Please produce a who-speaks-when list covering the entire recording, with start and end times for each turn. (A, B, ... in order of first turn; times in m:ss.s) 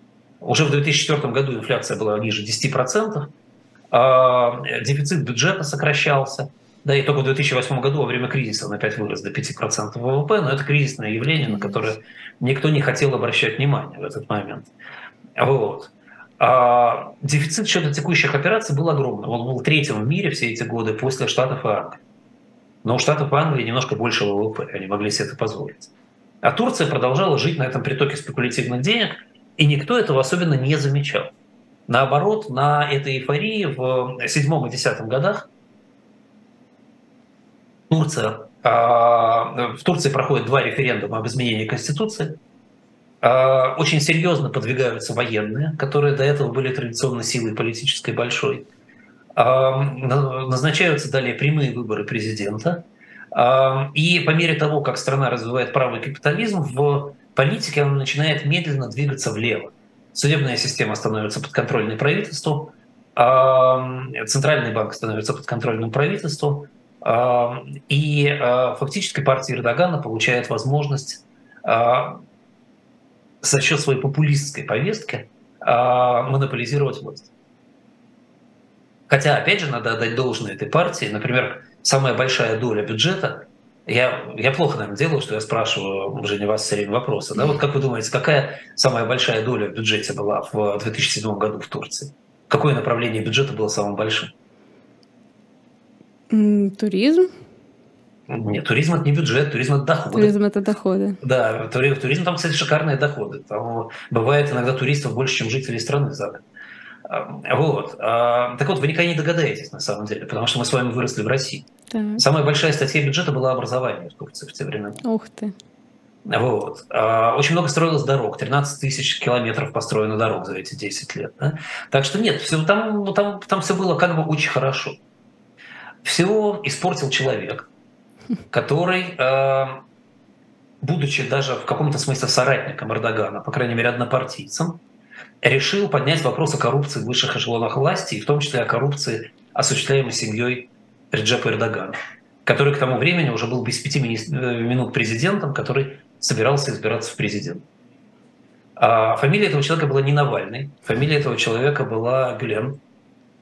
0:00.4-0:03.3 A
0:03.9-0:14.7 A
0:11.5-0:11.8 B
0:15.4-0:22.0 A
0:22.8-0:25.9 A
0:26.4-0:31.3 A
0:31.9-0:35.5 A
0:37.9-0:42.4 A
0:43.2-0:48.7 A
0:49.3-1:12.2 A
1:13.4-1:17.3 A
1:19.1-1:34.3 A
1:36.3-1:37.3 B
1:38.3-1:40.4 A
1:40.1-1:41.2 B
1:41.2-1:46.4 A
1:47.0-1:51.6 A
1:51.9-1:52.2 B
1:52.2-1:55.0 A
1:55.0-1:55.5 B
1:56.2-2:05.0 A
2:06.0-2:07.7 A
2:08.5-2:09.8 A
2:10.8-2:14.8 A
2:15.4-2:27.6 A
2:28.8-2:32.8 A